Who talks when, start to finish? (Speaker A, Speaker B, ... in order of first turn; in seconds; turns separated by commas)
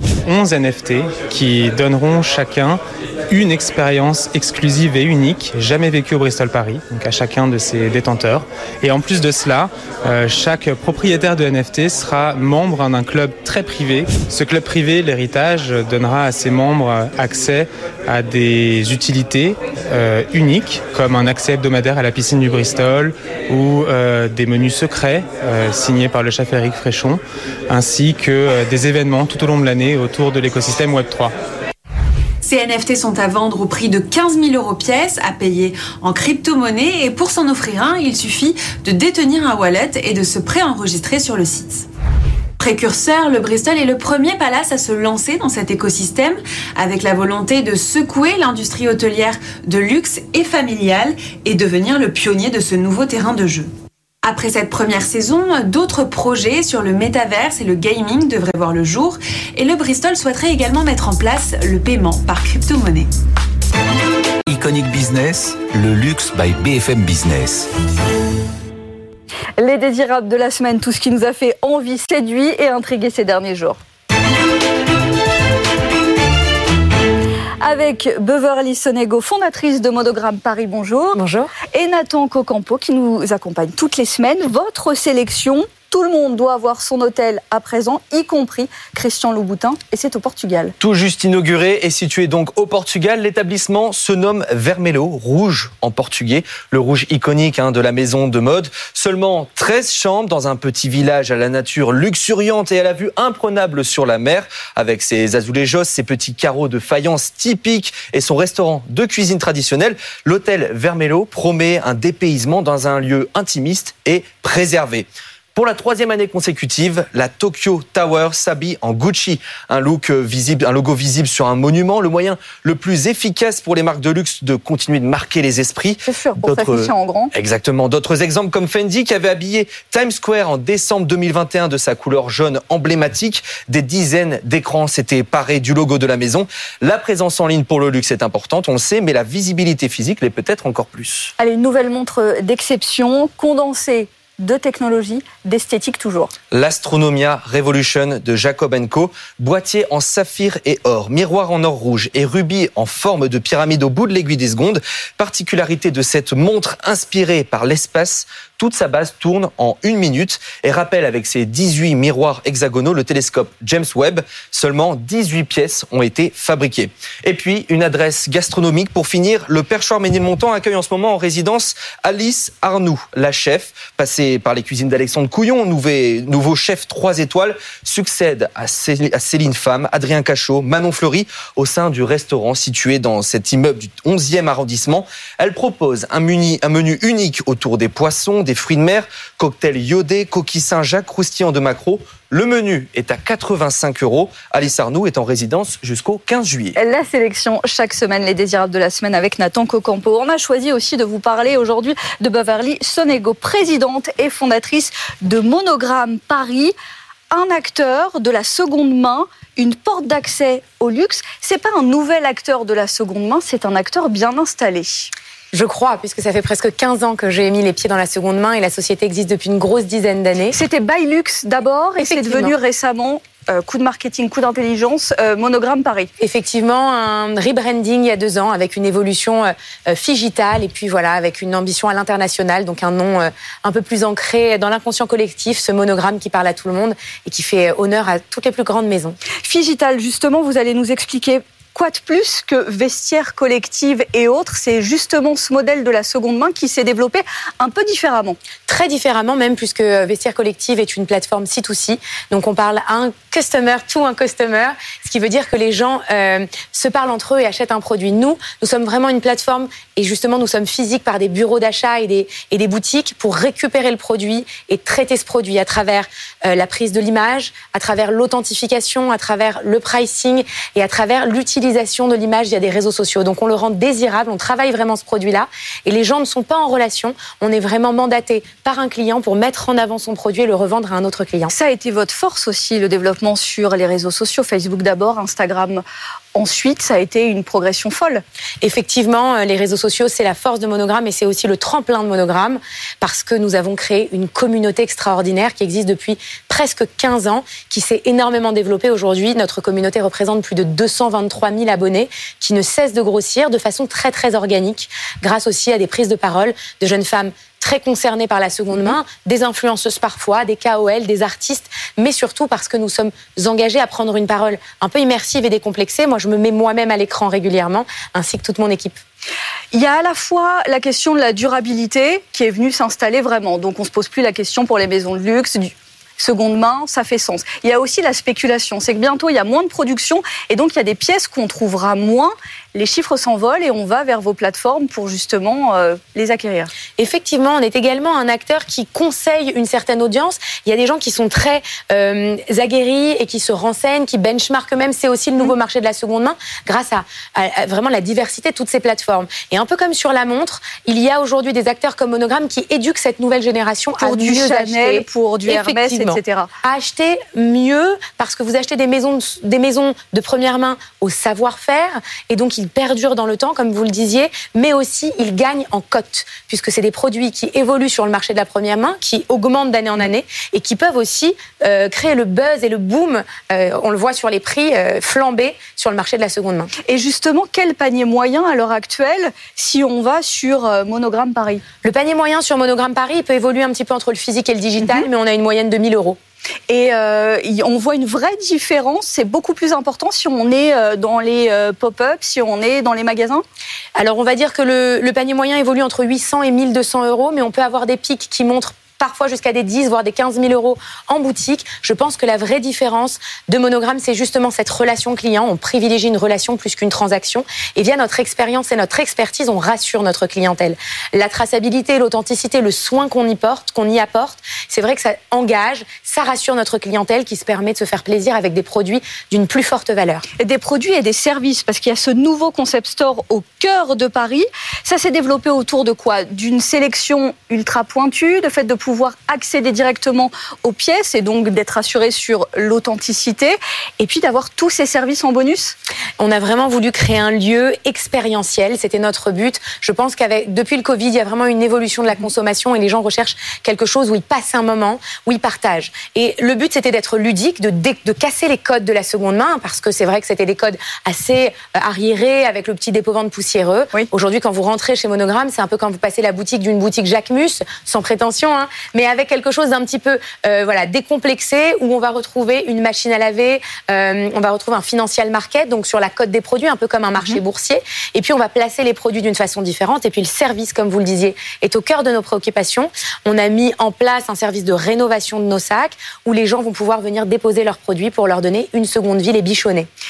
Speaker A: 0.3-31.3, Speaker B: 32.4-41.9, Speaker B: 42.6-53.7, Speaker B: 54.2-63.1, Speaker C: 64.5-67.7, Speaker D: 69.6-73.8, Speaker D: 77.6-90.7, Speaker E: 81.2-81.5, Speaker F: 90.8-141.3, Speaker D: 126.0-127.3, Speaker D: 141.4-146.3, Speaker F: 146.5-196.8, Speaker D: 196.8-206.8, Speaker D: 207.3-215.1, Speaker E: 215.5-220.6, Speaker D: 220.5-226.1, Speaker E: 222.0-222.6, Speaker E: 226.2-239.2, Speaker D: 239.4-248.4, Speaker E: 248.7-281.5, Speaker D: 281.5-285.8, Speaker D: 286.4-288.2, Speaker E: 288.6-319.0, Speaker D: 319.7-336.7, Speaker E: 337.0-376.7, Speaker D: 354.0-356.5, Speaker D: 376.8-381.6, Speaker E: 381.8-386.2, Speaker D: 386.7-393.4, Speaker E: 394.0-420.2, Speaker D: 420.4-435.8, Speaker E: 436.2-479.9